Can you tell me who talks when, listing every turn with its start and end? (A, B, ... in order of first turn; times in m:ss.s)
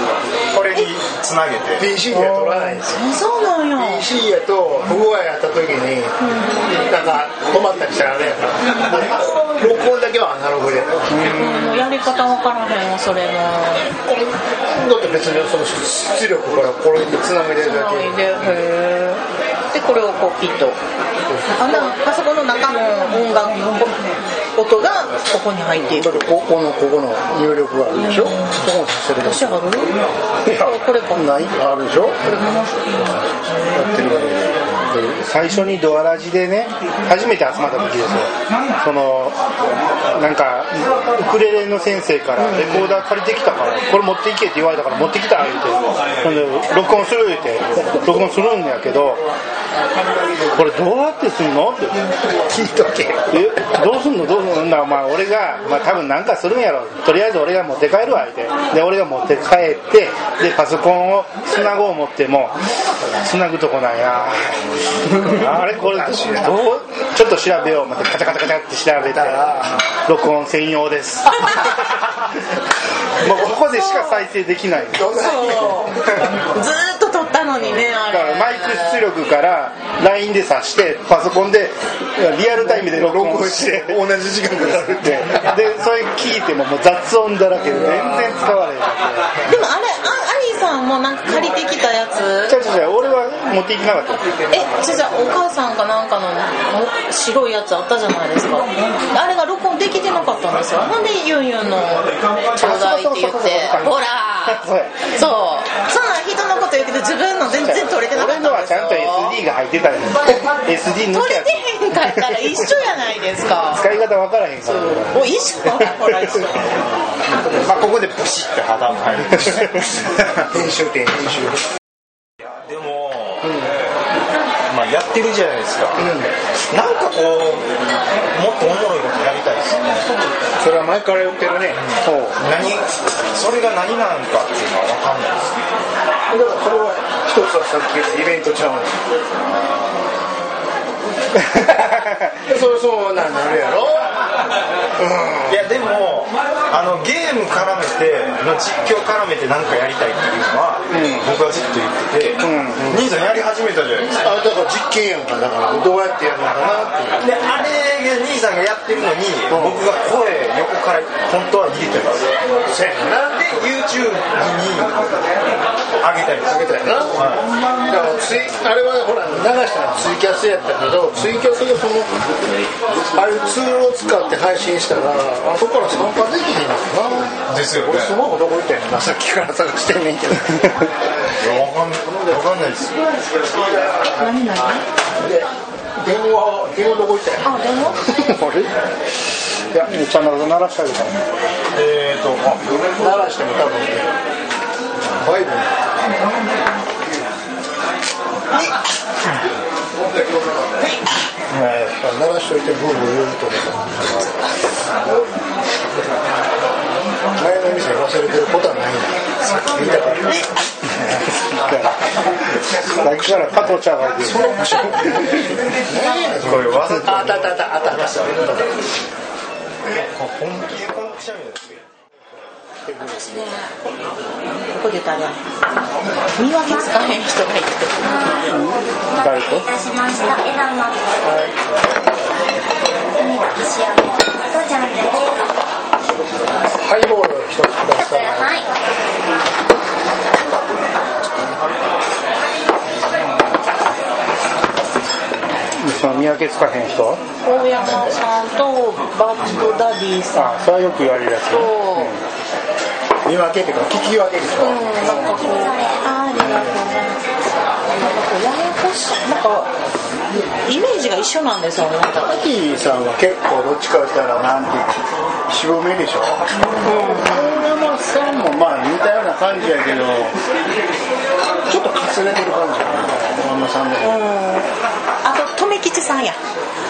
0:00.5-0:01.9 A
0:01.8-0:03.0 B
0:02.1-0:02.8 C
0:02.8-0:04.1 D
0:03.8-0:11.2 B
0:06.2-0:06.8 D
0:11.1-0:11.9 C
0:11.3-0:13.9 D
0:14.0-0:18.2 B
0:17.6-0:20.8 D
0:21.3-0:21.9 B
0:21.6-0:24.0 D
0:24.6-0:26.1 D
0:25.8-0:29.6 B
0:28.1-0:28.5 D
0:29.2-0:30.0 D
0:30.5-0:31.5 D
0:31.1-0:32.4 B
0:32.3-0:33.2 D
0:33.6-0:34.6 B
0:34.9-0:39.4 C
0:40.1-0:49.2 C
0:42.4-0:43.0 B
0:50.5-0:52.0 C
0:52.4-0:53.3 B
0:53.3-1:02.6 C
1:03.2-1:04.6 C
1:05.1-1:11.8 C
1:05.3-1:06.7 B
1:09.0-1:09.8 B
1:13.2-1:15.1 C
1:13.7-1:14.3 D
1:14.9-1:16.1 B
1:15.1-1:19.1 D
1:18.0-1:24.0 C
1:22.6-1:25.5 B
1:24.7-1:29.4 C
1:27.7-1:28.3 B
1:29.5-1:32.6 D
1:32.5-1:34.3 C
1:34.5-1:49.4 D
1:42.6-1:45.0 C
1:47.6-1:52.7 C
1:51.1-1:53.9 D
1:53.7-1:55.2 C
1:54.7-1:56.9 D
1:57.5-2:00.0 A
2:00.4-2:01.6 B
2:02.6-2:03.6 A
2:04.7-2:06.1 A
2:06.0-2:06.3 B
2:06.7-2:07.7 A
2:08.3-2:10.1 A
2:10.6-2:11.8 B
2:11.7-2:15.6 A
2:12.0-2:12.4 C
2:16.3-2:19.0 B
2:21.4-2:22.4 C
2:22.5-2:24.1 B
2:25.0-2:25.7 B
2:25.5-2:34.2 A
2:30.9-2:31.3 C
2:32.4-2:33.1 C
2:34.2-2:37.2 B
2:37.2-2:42.3 A
2:39.5-2:39.8 C
2:42.5-2:43.4 B
2:43.3-2:45.2 A
2:46.0-2:47.5 A
2:46.5-2:47.2 B
2:47.8-2:52.1 B
2:53.0-3:00.9 B
2:57.5-2:58.2 A
3:01.4-3:03.4 A
3:03.5-3:04.2 B
3:04.2-3:04.8 D
3:05.2-3:07.5 B
3:07.4-3:08.1 D
3:08.3-3:08.7 C
3:09.7-3:11.2 C
3:11.7-3:12.9 A
3:13.0-3:14.1 B
3:15.2-3:15.7 B
3:21.5-3:24.3 B
3:27.4-3:30.4 B
3:29.5-3:30.4 A
3:31.4-3:32.0 C
3:32.9-3:33.6 B
3:33.0-3:34.6 C
3:34.2-3:38.8 B
3:36.3-3:38.2 A
3:39.9-3:41.8 A
3:43.3-3:43.6 D
3:44.7-3:45.4 D
3:46.4-3:48.3 D
3:48.4-3:49.9 C
3:49.9-3:50.8 E
3:51.2-3:51.5 B
3:53.4-3:55.3 E
3:56.8-3:58.6 B
4:05.8-4:07.2 C
4:07.4-4:10.7 D
4:07.8-4:08.2 B
4:10.3-4:12.2 C
4:11.5-4:12.2 D
4:13.2-4:15.3 B
4:14.6-4:17.2 D
4:15.0-4:15.3 C
4:18.0-4:19.7 D
4:20.6-4:22.4 D
4:22.1-4:30.4 B
4:26.8-4:27.6 D
4:31.7-4:34.2 B
4:34.0-4:34.7 D
4:35.2-4:36.4 D